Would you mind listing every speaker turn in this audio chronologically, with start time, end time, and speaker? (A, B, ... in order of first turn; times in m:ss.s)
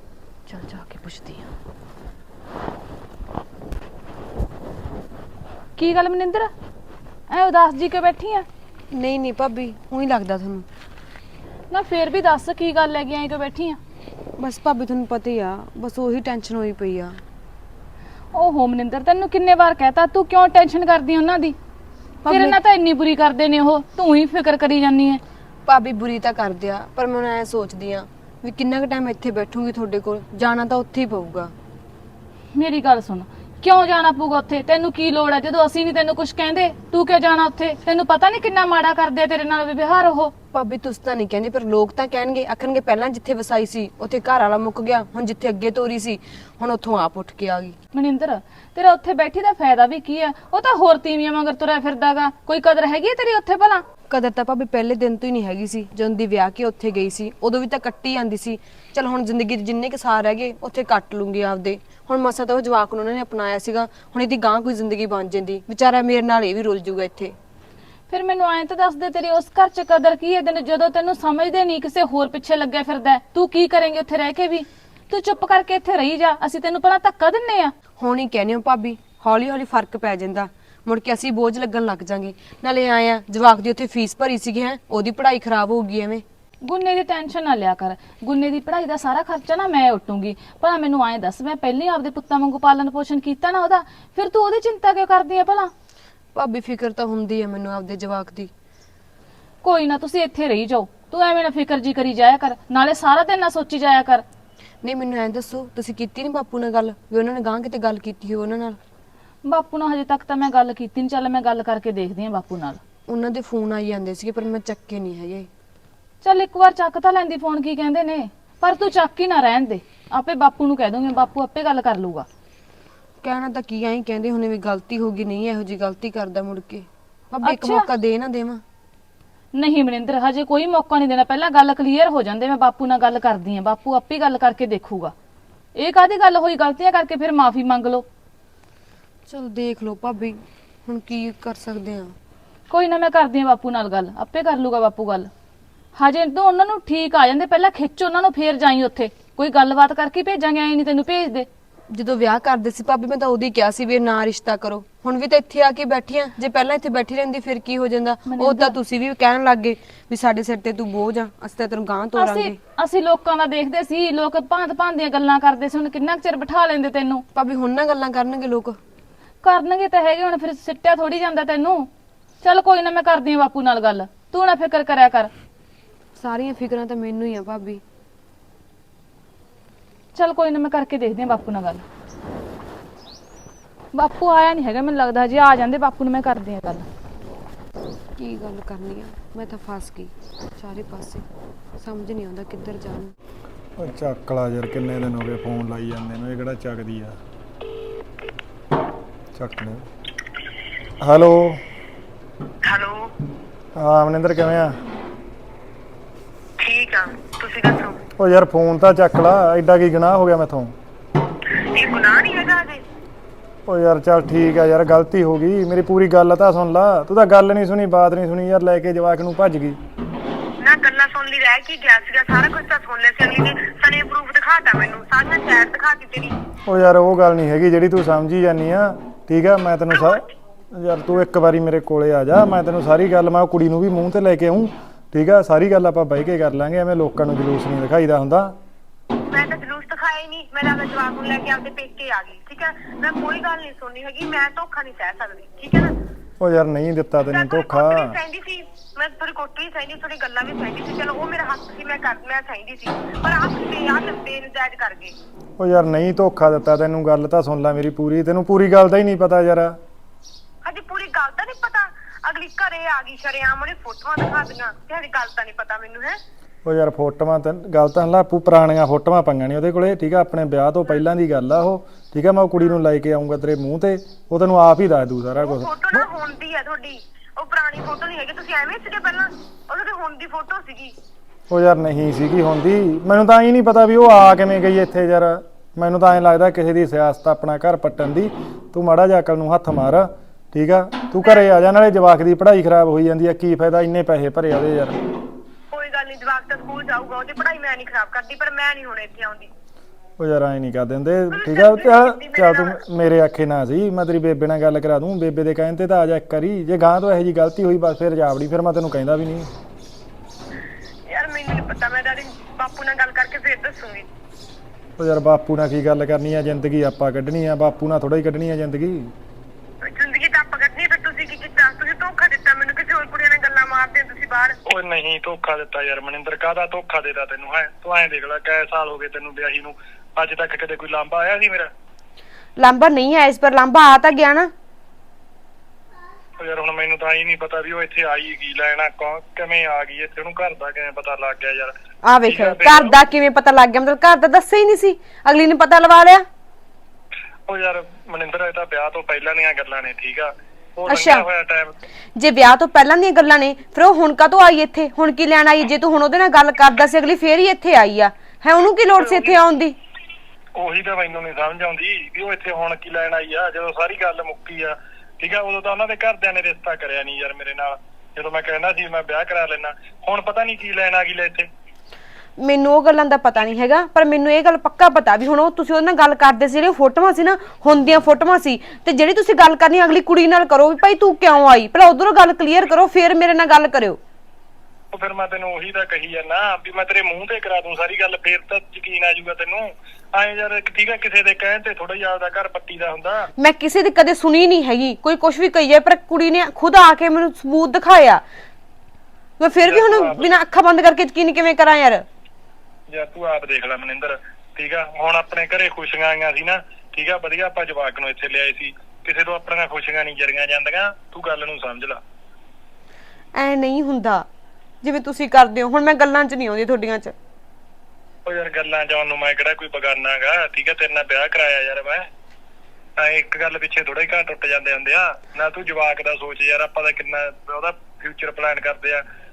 0:00.5-0:01.5 A
0:05.8-0:06.5 A
0:07.3-0:08.4 A
0:08.9-0:10.6 B
0:11.7-0:13.8 A
0:14.4-0:17.2 B
0:18.3-0:21.6 A
0:22.2-0:22.6 B
0:22.3-0:25.2 A
0:25.6-0:31.5 B
0:32.5-0:40.3 A
0:40.5-0:47.8 B
0:47.9-0:53.8 A
0:54.1-1:07.3 B
1:08.1-1:17.7 A
1:18.0-1:26.2 B
1:26.6-1:35.7 A
1:36.3-1:38.5 B
1:39.6-1:44.2 A
1:44.8-1:48.8 B
1:49.4-1:52.8 A
1:53.1-1:55.5 B
1:56.2-2:02.2 A
2:03.2-2:08.6 B
2:07.4-2:07.9 A
2:09.5-2:15.1 A
2:15.7-2:18.0 A
2:19.3-2:22.1 B
2:22.7-2:25.3 A
2:26.0-2:31.5 A
2:31.9-2:42.6 B
2:38.2-2:38.8 A
2:42.1-2:47.2 A
2:47.3-2:48.8 B
2:49.4-2:51.9 A
2:52.4-2:55.3 A
2:56.2-2:57.8 B
3:00.1-3:01.8 A
3:03.9-3:06.8 A
3:08.2-3:11.2 B
3:11.8-3:13.1 B
3:13.8-3:17.2 C
3:19.3-3:19.8 C
3:21.0-3:21.6 C
3:22.6-3:23.1 D
3:23.7-3:24.8 C
3:26.6-3:28.0 D
3:28.2-3:30.7 C
3:31.7-3:32.8 D
3:33.7-3:39.8 C
3:40.6-3:46.4 D
3:46.6-3:58.5 C
3:49.9-3:50.2 D
3:59.3-4:05.9 D
4:06.4-4:08.2 C
4:07.3-4:15.1 D
4:15.6-4:19.8 C
4:20.6-4:26.2 D
4:26.6-4:36.1 C
4:35.4-4:40.9 D
4:41.5-4:55.0 C
4:51.2-4:51.5 D
4:55.7-4:59.5 D
5:00.2-5:09.5 C
5:01.3-5:02.8 D
5:11.1-5:14.0 D
5:15.0-5:19.1 C
5:19.8-5:24.6 D
5:24.6-5:31.7 E
5:32.6-5:34.5 F
5:36.4-5:41.7 E
5:42.0-5:46.2 F
5:42.2-5:43.0 E
5:47.5-5:51.7 E
5:50.9-5:51.2 F
5:52.2-5:59.7 F
5:59.0-5:59.4 E
6:00.6-6:11.5 E
6:12.4-6:24.0 F
6:24.9-6:33.3 E
6:33.4-6:38.2 F
6:39.4-6:42.0 F
6:39.6-6:40.3 E
6:42.9-6:52.0 E
6:53.3-6:54.2 F
6:54.8-6:57.1 F
6:58.2-7:02.1 E
7:03.0-7:09.0 E